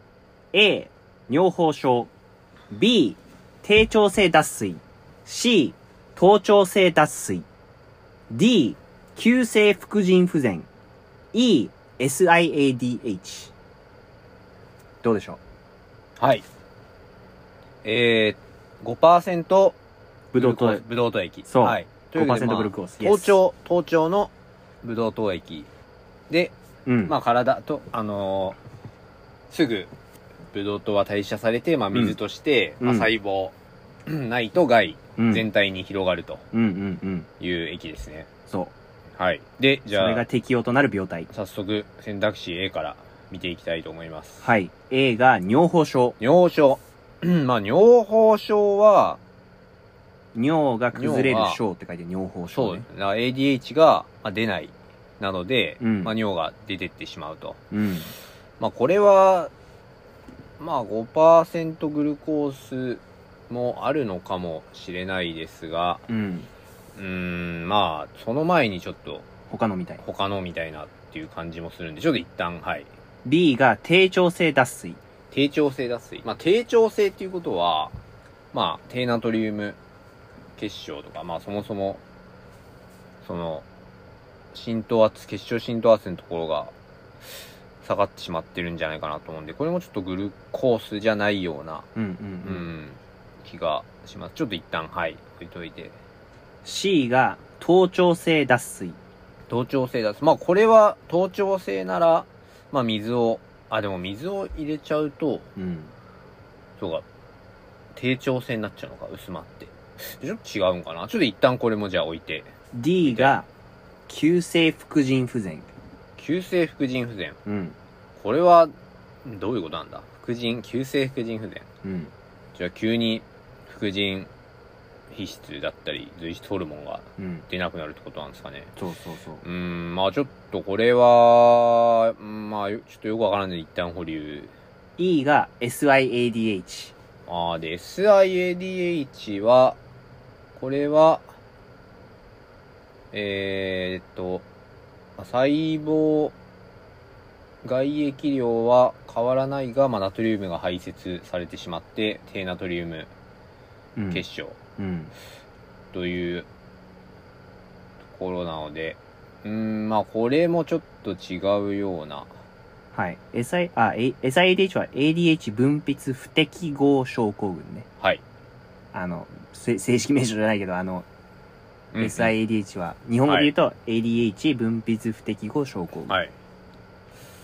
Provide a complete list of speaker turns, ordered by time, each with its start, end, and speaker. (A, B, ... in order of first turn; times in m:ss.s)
0:00.5-0:02.1 A
0:02.7-0:07.4 A
0:08.3-0:10.7 A
0:11.3-0:13.5 A
0:15.0-0:15.4 A
0:16.2-0:16.4 B
0:17.8-0:19.8 B
0:20.3-0:20.8 A
0:20.4-0:24.3 B
0:21.4-0:23.4 A
0:24.8-0:25.7 B
0:26.8-0:27.1 A
0:27.1-0:28.6 B
0:29.5-0:29.9 B
0:30.5-0:33.5 B
0:31.9-0:32.2 A
0:32.8-0:33.1 A
0:34.0-0:36.4 B
0:35.2-0:35.4 A
0:36.5-0:37.3 A
0:37.4-0:38.3 B
0:39.2-0:40.2 B
0:39.9-0:41.3 A
0:41.3-0:44.4 B
0:44.4-0:46.2 A
0:46.2-0:49.2 B
0:50.3-0:52.8 A
0:50.9-0:51.6 B
0:52.5-0:57.6 B
0:55.8-0:56.1 A
0:57.7-0:58.1 A
0:58.6-0:59.5 B
1:00.6-1:06.0 B
1:06.1-1:06.5 A
1:07.0-1:09.2 B
1:09.5-1:10.0 A
1:10.0-1:12.9 B
1:13.2-1:15.0 A
1:15.3-1:18.0 B
1:18.5-1:19.8 B
1:20.6-1:22.0 B
1:23.2-1:23.6 B
1:24.5-1:26.7 B
1:27.8-1:31.9 B
1:31.9-1:32.7 A
1:32.4-1:36.0 B
1:36.6-1:39.0 A
1:39.5-1:45.5 B
1:45.6-1:45.9 A
1:46.8-1:47.0 B
1:48.0-1:52.5 B
1:52.7-1:53.5 A
1:53.0-1:53.3 B
1:54.1-1:55.7 A
1:56.2-1:57.4 B
1:57.4-1:57.8 A
1:58.2-1:58.7 B
1:59.2-2:01.7 B
2:01.8-2:02.1 A
2:02.5-2:04.3 B
2:05.1-2:08.7 B
2:07.2-2:07.4 A
2:08.8-2:09.4 A
2:09.4-2:14.5 B
2:15.0-2:16.9 A
2:17.3-2:19.8 B
2:20.5-2:21.3 B
2:23.1-2:24.4 B
2:25.2-2:26.3 B
2:27.6-2:33.1 B
2:34.0-2:34.2 A
2:34.1-2:34.6 B
2:34.8-2:35.1 A
2:35.9-2:36.5 B
2:38.1-2:42.3 B
2:42.9-2:47.9 A
2:48.9-2:51.1 A
2:51.9-2:52.3 B
2:52.0-2:56.1 A
2:53.3-2:53.5 B
2:56.1-2:56.3 B